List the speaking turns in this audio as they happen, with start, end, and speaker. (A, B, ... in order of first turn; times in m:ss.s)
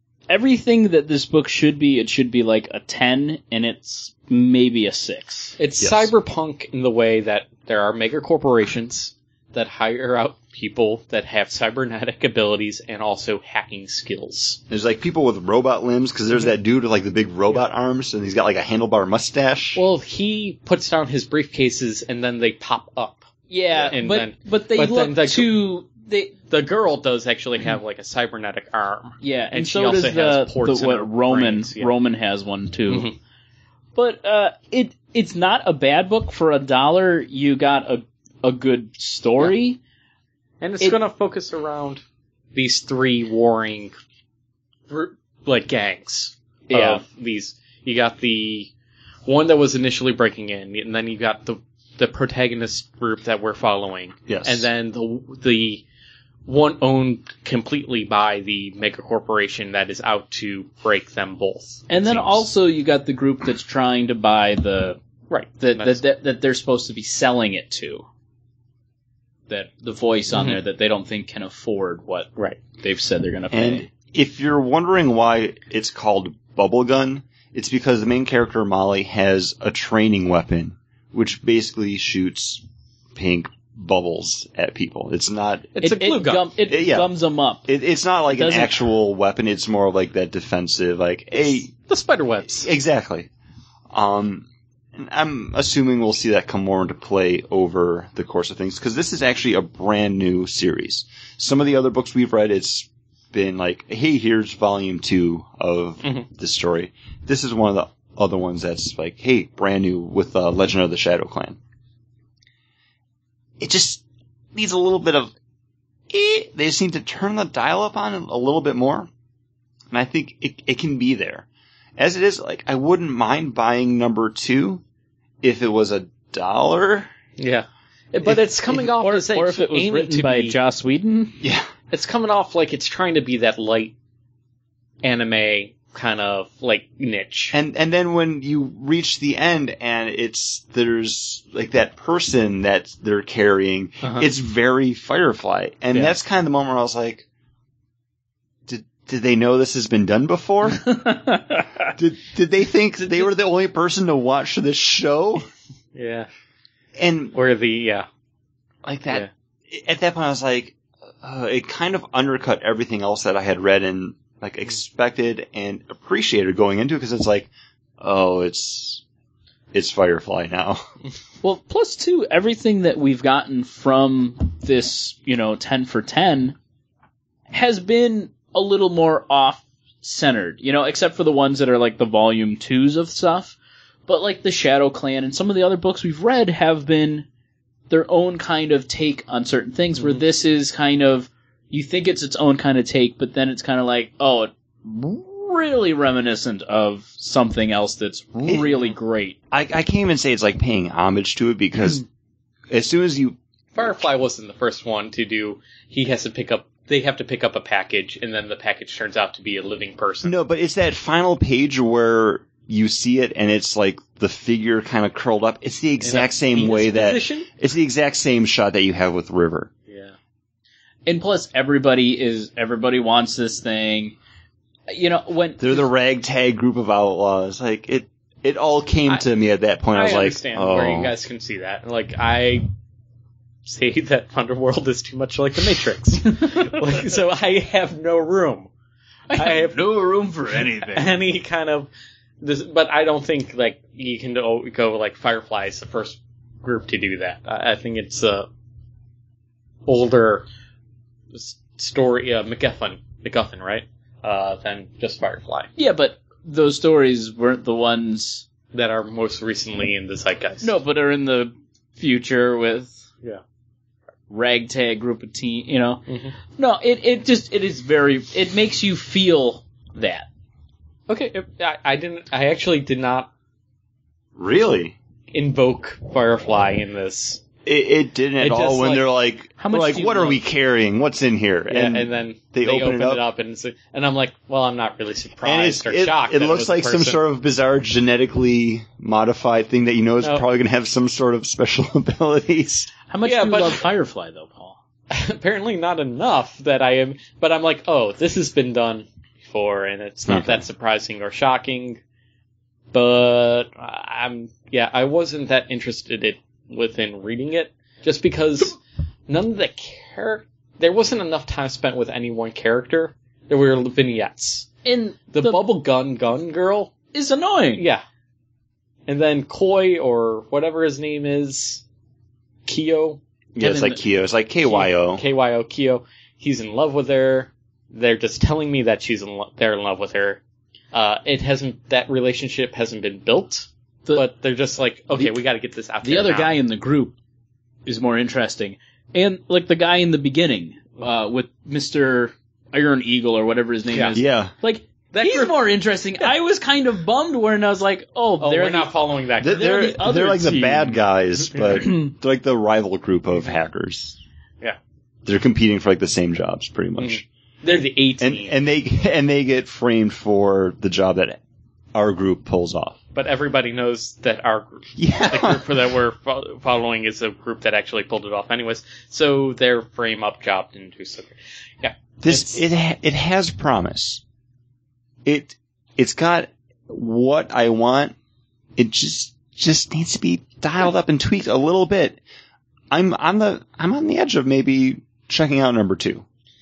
0:00.3-0:05.6 A
0:05.6-0:14.6 B
0:05.8-0:06.1 C
0:14.7-0:19.8 C
0:19.8-0:23.3 B
0:23.5-0:26.4 A
0:23.9-0:25.6 B
0:26.5-0:31.9 B
0:29.2-0:33.1 A
0:32.9-0:33.1 B
0:34.0-0:39.8 A
0:40.6-0:42.0 B
0:42.5-0:43.9 B
0:44.9-0:48.7 B
0:46.7-0:47.0 A
0:49.2-0:55.8 B
0:54.3-0:54.7 C
0:56.4-1:02.4 B
1:01.9-1:05.0 A
1:05.3-1:06.0 B
1:05.6-1:08.0 A
1:09.5-1:13.9 A
1:10.3-1:10.6 B
1:13.5-1:22.6 C
1:23.1-1:25.7 C
1:25.7-1:26.5 B
1:25.8-1:27.7 A
1:26.7-1:27.1 C
1:27.7-1:31.7 C
1:28.3-1:28.8 A
1:31.7-1:32.7 B
1:32.5-1:33.3 C
1:33.9-1:51.6 C
1:53.6-1:54.0 C
1:54.5-1:55.3 C
1:56.1-1:59.1 C
1:59.9-2:01.5 C
2:02.0-2:04.8 C
2:05.4-2:07.1 C
2:07.4-2:10.6 B
2:08.2-2:08.8 C
2:08.9-2:11.4 A
2:11.4-2:11.7 C
2:11.9-2:13.9 B
2:15.0-2:17.5 B
2:17.5-2:27.2 C
2:28.7-2:31.0 C
2:30.8-2:31.7 A
2:31.9-2:35.4 C
2:35.9-2:36.3 B
2:37.0-2:37.3 C
2:37.3-2:38.0 B
2:38.8-2:49.0 C
2:49.7-2:50.8 C
2:51.4-2:56.6 A
2:57.5-3:07.3 A
3:07.9-3:19.4 A
3:19.5-3:22.0 C
3:22.7-3:24.0 C
3:23.7-3:30.4 B
3:30.2-3:39.7 C
3:36.0-3:37.5 B
3:39.9-3:40.1 B
3:41.0-3:44.1 A
3:44.9-3:45.8 A
3:45.6-3:51.1 C
3:49.9-3:52.7 B
3:53.6-3:58.7 B
3:59.3-4:01.2 A
3:59.3-3:59.8 B
4:00.8-4:01.9 B
4:02.4-4:08.5 B
4:09.8-4:10.4 B
4:11.3-4:15.7 B
4:15.8-4:18.4 A
4:18.7-4:20.8 B
4:20.6-4:23.0 A
4:24.3-4:30.3 A
4:26.1-4:26.3 B
4:31.1-4:33.3 B
4:34.4-4:35.0 C
4:35.3-4:37.4 B
4:37.6-4:43.2 C
4:38.4-4:39.0 B
4:39.6-4:40.4 A
4:41.7-4:47.2 B
4:45.4-4:52.9 C
4:53.1-4:54.8 A
4:53.2-4:53.8 B
4:55.1-5:02.0 B
5:00.3-5:00.6 C
5:02.9-5:14.8 B
5:14.8-5:15.6 A
5:15.3-5:16.9 B
5:17.1-5:17.8 A
5:17.8-5:18.0 B
5:19.1-5:21.8 B
5:22.6-5:23.2 B
5:23.6-5:25.2 C
5:23.6-5:24.0 A
5:24.6-5:30.4 B
5:30.9-5:36.6 B
5:36.0-5:37.1 A
5:37.8-5:48.9 A
5:44.1-5:44.5 C
5:45.1-5:46.3 B
5:48.4-5:50.0 B
5:49.4-5:54.2 C
5:49.4-5:51.0 A
5:51.5-5:51.8 B
5:55.2-5:57.2 C
5:57.0-5:58.6 B
5:58.2-6:01.4 C
6:01.9-6:03.0 C
6:03.1-6:12.6 B
6:05.0-6:05.7 C
6:12.2-6:14.2 C
6:15.2-6:18.1 C
6:18.8-6:22.2 C
6:22.9-6:26.2 C